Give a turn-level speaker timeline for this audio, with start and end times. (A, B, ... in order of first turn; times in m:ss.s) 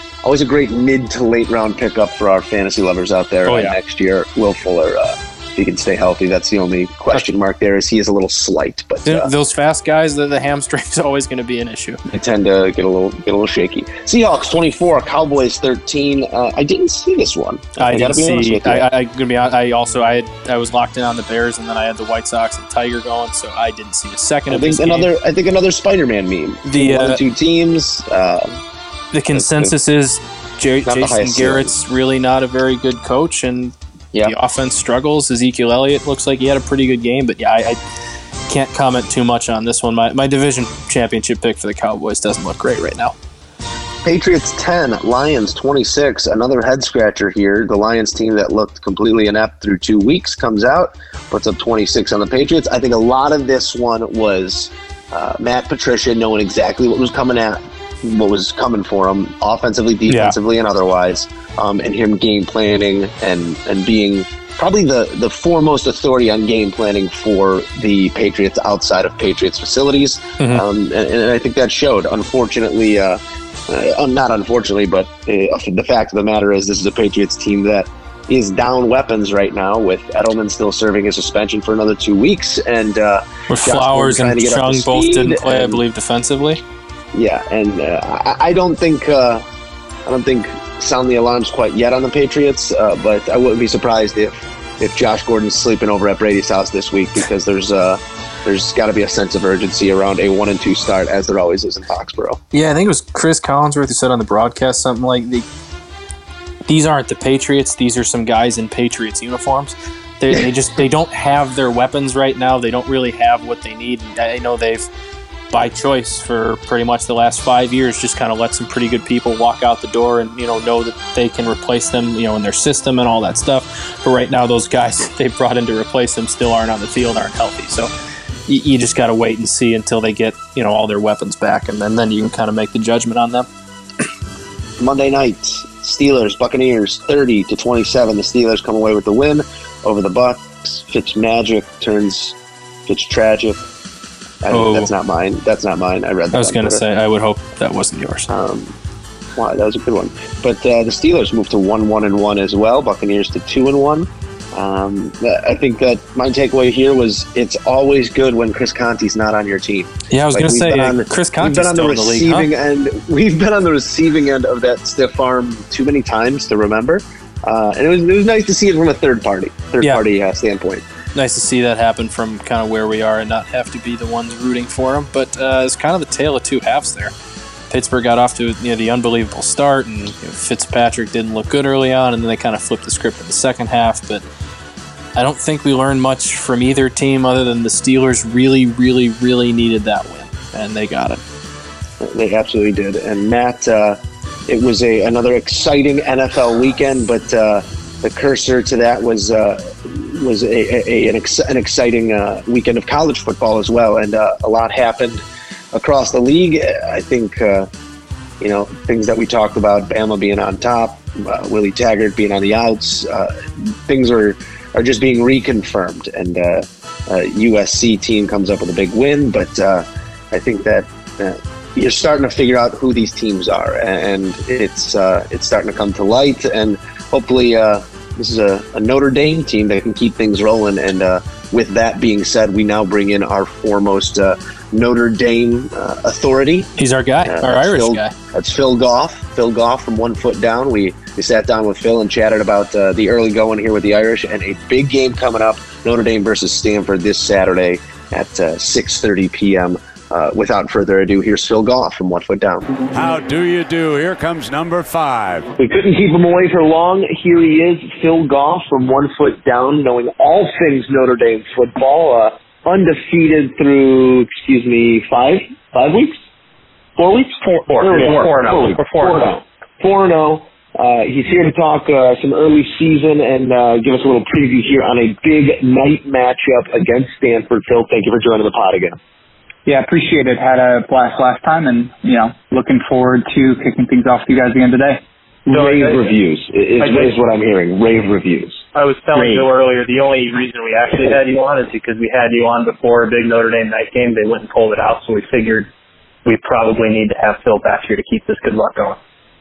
0:00.2-0:09.3 A
0:03.4-0:03.8 B
0:09.0-0:12.0 B
0:12.1-0:18.9 A
0:17.8-0:25.1 B
0:24.5-0:28.6 A
0:26.6-0:27.2 B
0:29.1-0:37.8 B
0:29.3-0:29.7 A
0:30.8-0:31.7 A
0:38.5-0:43.1 B
0:44.0-1:25.8 A
1:00.1-1:00.4 B
1:23.5-1:26.6 B
1:27.1-1:29.4 A
1:30.0-1:42.4 A
1:42.5-1:45.4 B
1:46.7-1:54.9 B
1:55.5-2:07.9 B
2:08.5-2:13.5 B
2:14.8-2:23.6 A
2:24.4-2:26.8 A
2:24.5-2:24.9 B
2:26.3-2:28.3 B
2:28.3-2:28.7 A
2:29.4-2:50.8 A
2:40.1-2:42.5 B
2:51.1-2:57.1 B
2:57.7-3:04.2 B
3:05.2-3:11.2 B
3:12.0-3:27.7 A
3:28.4-3:56.7 A
3:56.8-3:58.1 B
3:57.2-4:12.8 A
4:12.9-4:15.5 C
4:15.6-4:26.2 A
4:27.0-4:29.3 D
4:27.8-4:39.0 A
4:39.6-4:45.0 E
4:45.5-4:48.6 A
4:45.5-4:46.1 D
4:46.8-4:47.1 D
4:48.7-4:55.7 D
4:49.1-4:49.5 A
4:56.2-4:59.0 D